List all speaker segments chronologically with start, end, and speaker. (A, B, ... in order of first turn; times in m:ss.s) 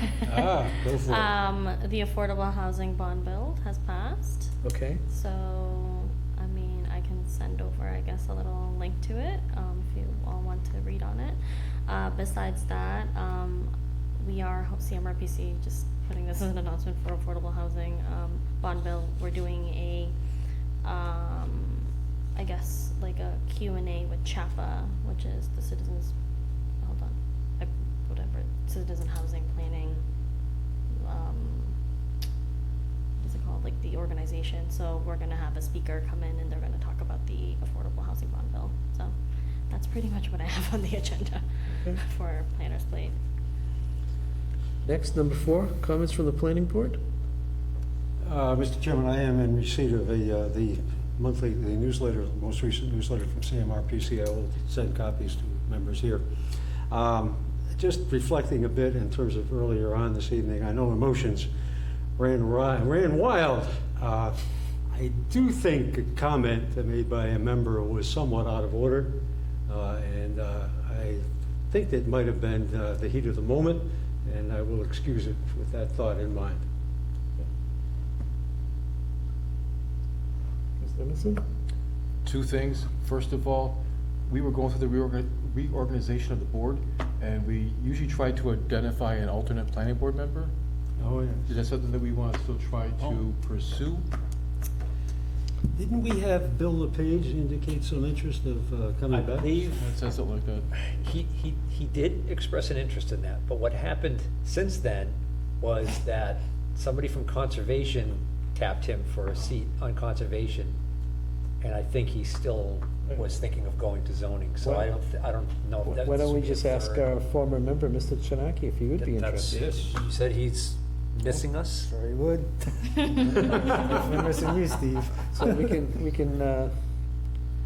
0:00.2-0:01.3 A
0:01.0-0:04.5 B
0:04.6-0:05.0 C
0:05.1-0:20.1 B
0:20.8-0:26.1 B
0:26.8-0:30.0 B
0:31.0-0:31.7 B
0:33.2-0:39.1 B
0:39.7-0:43.2 B
0:44.8-0:47.0 C
0:48.2-0:56.2 A
0:56.9-1:01.5 A
1:02.2-1:16.6 A
1:20.8-1:21.4 C
1:22.2-1:30.5 D
1:31.0-1:31.4 A
1:31.5-1:34.1 D
1:35.7-1:39.5 A
1:39.1-1:39.8 E
1:39.5-1:40.6 D
1:40.7-1:50.8 E
1:51.6-1:57.0 E
1:54.6-1:54.9 C
1:55.8-1:59.6 C
1:59.0-2:01.9 E
2:01.9-2:05.3 F
2:05.3-2:06.7 C